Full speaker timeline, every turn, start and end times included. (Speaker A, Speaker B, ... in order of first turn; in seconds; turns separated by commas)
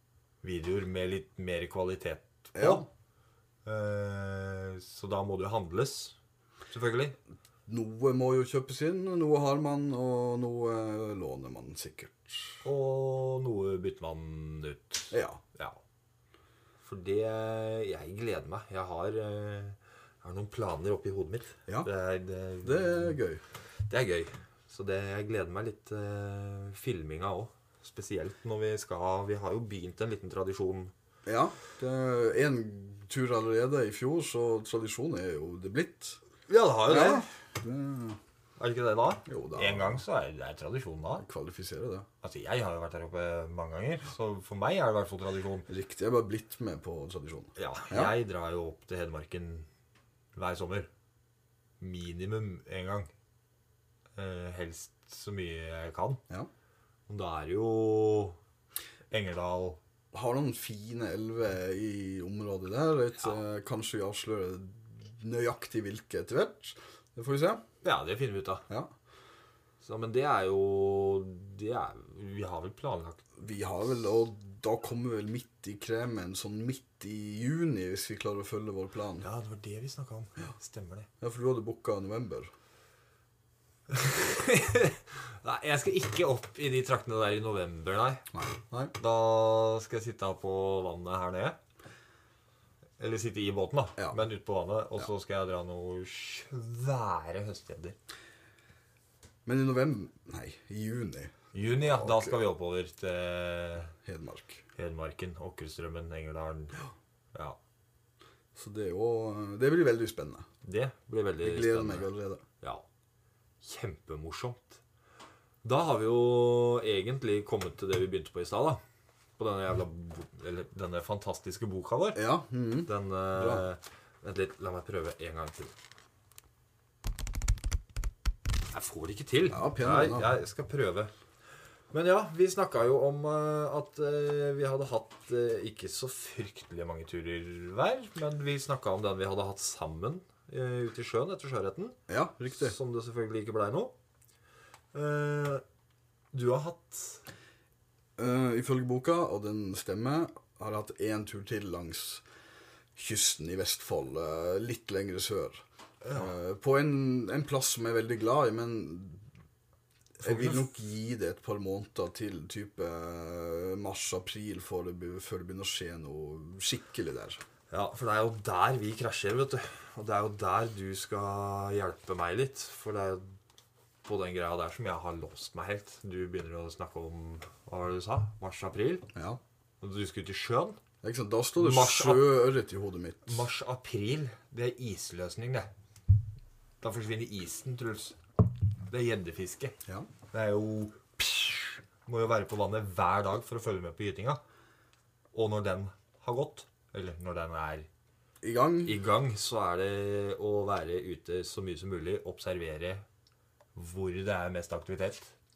Speaker A: 0.4-2.9, Speaker B: 2.5-2.9, Speaker A: 3.6-6.2, Speaker A: 6.7-7.2, Speaker B: 7.7-12.6, Speaker A: 12.6-15.8, Speaker B: 15.1-15.4, Speaker A: 16.8-23.2, Speaker B: 22.6-23.4, Speaker A: 23.9-30.9, Speaker B: 31.2-36.2, Speaker A: 36.5-37.3, Speaker B: 36.9-38.2, Speaker A: 38.6-41.2, Speaker B: 39.2-40.0, Speaker B: 41.2-42.1, Speaker A: 42.2-45.7, Speaker B: 45.7-48.1, Speaker A: 47.5-49.7, Speaker A: 50.3-50.9, Speaker A: 51.8-53.1, Speaker A: 54.1-56.2, Speaker A: 57.1-58.4, Speaker A: 59.1-59.8, Speaker B: 60.1-67.6, Speaker A: 67.8-68.6, Speaker A: 69.8-73.2, Speaker B: 73.4-79.3, Speaker A: 79.2-81.1, Speaker B: 81.2-82.5, Speaker A: 83.9-88.3, Speaker B: 88.3-88.9, Speaker A: 89.0-91.6, Speaker A: 93.0-98.0, Speaker B: 99.4-102.4, Speaker A: 101.5-103.9, Speaker B: 104.0-104.6, Speaker A: 104.8-106.8, Speaker B: 108.5-110.5, Speaker A: 110.6-112.1, Speaker B: 111.4-112.4, Speaker A: 113.6-114.8, Speaker A: 115.6-118.8, Speaker A: 119.4-122.2, Speaker B: 122.1-123.7, Speaker A: 122.9-125.7, Speaker A: 128.7-131.1, Speaker B: 129.5-130.3, Speaker A: 131.9-142.0, Speaker B: 142.1-142.8, Speaker A: 142.5-143.9, Speaker A: 144.9-145.6, Speaker A: 146.3-147.2, Speaker B: 148.2-152.2, Speaker B: 152.9-159.2, Speaker A: 156.0-156.3, Speaker B: 160.2-167.4, Speaker A: 160.2-160.7, Speaker A: 167.7-173.3, Speaker A: 174.0-179.1, Speaker B: 179.1-179.4, Speaker A: 179.8-180.8, Speaker B: 181.0-183.4, Speaker A: 181.6-182.4, Speaker A: 183.2-185.7, Speaker A: 186.8-188.2, Speaker A: 188.9-189.7, Speaker A: 190.3-194.4, Speaker A: 195.3-197.9, Speaker B: 198.4-199.0, Speaker A: 198.8-203.0, Speaker A: 203.7-205.3